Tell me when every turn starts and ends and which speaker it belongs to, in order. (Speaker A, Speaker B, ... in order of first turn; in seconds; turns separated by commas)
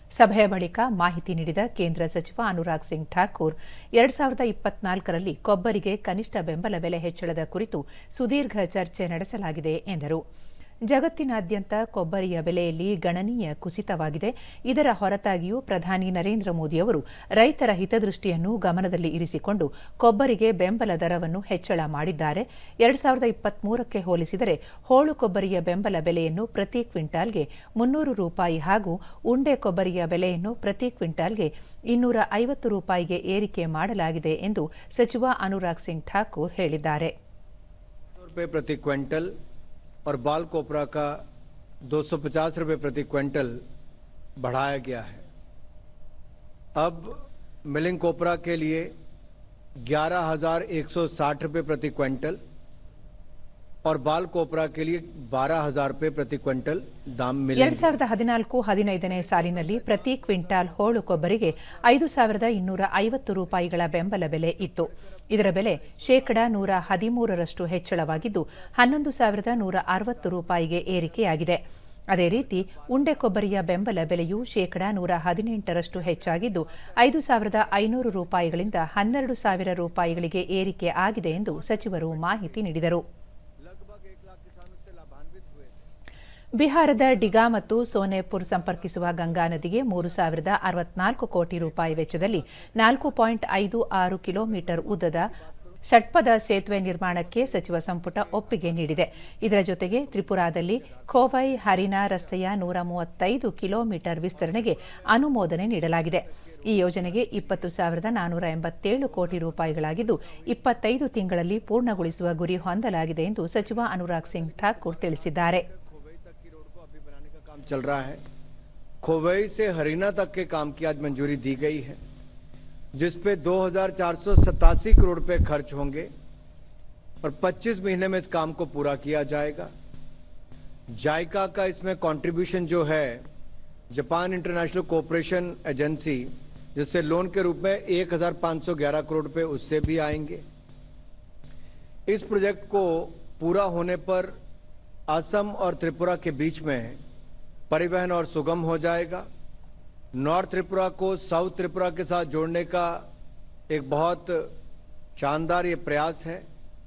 Speaker A: 0.1-10.2, Speaker A: 10.9-37.1, Speaker B: 38.2-39.3, Speaker B: 40.0-41.2, Speaker B: 41.9-43.6, Speaker B: 44.4-45.2, Speaker B: 46.8-47.1, Speaker B: 47.6-48.9, Speaker B: 49.8-52.4, Speaker B: 53.8-58.0, Speaker A: 57.5-83.0, Speaker B: 59.0-62.7, Speaker B: 63.3-67.2, Speaker B: 68.1-73.7, Speaker B: 75.9-82.7, Speaker B: 83.6-85.9, Speaker A: 86.5-95.3, Speaker B: 86.8-87.9, Speaker B: 88.4-90.5, Speaker B: 91.6-93.3, Speaker B: 94.2-95.8, Speaker A: 95.8-115.6, Speaker B: 96.5-102.5, Speaker B: 104.3-107.7, Speaker B: 109.0-110.8, Speaker B: 111.5-112.7, Speaker B: 113.5-118.2, Speaker B: 119.0-122.0, Speaker B: 122.9-126.1, Speaker B: 127.2-129.7, Speaker B: 130.9-133.2, Speaker B: 133.9-140.4, Speaker B: 142.1-144.3, Speaker B: 145.1-147.0, Speaker B: 147.7-149.2, Speaker B: 150.1-153.1, Speaker B: 153.7-154.5, Speaker B: 155.2-156.4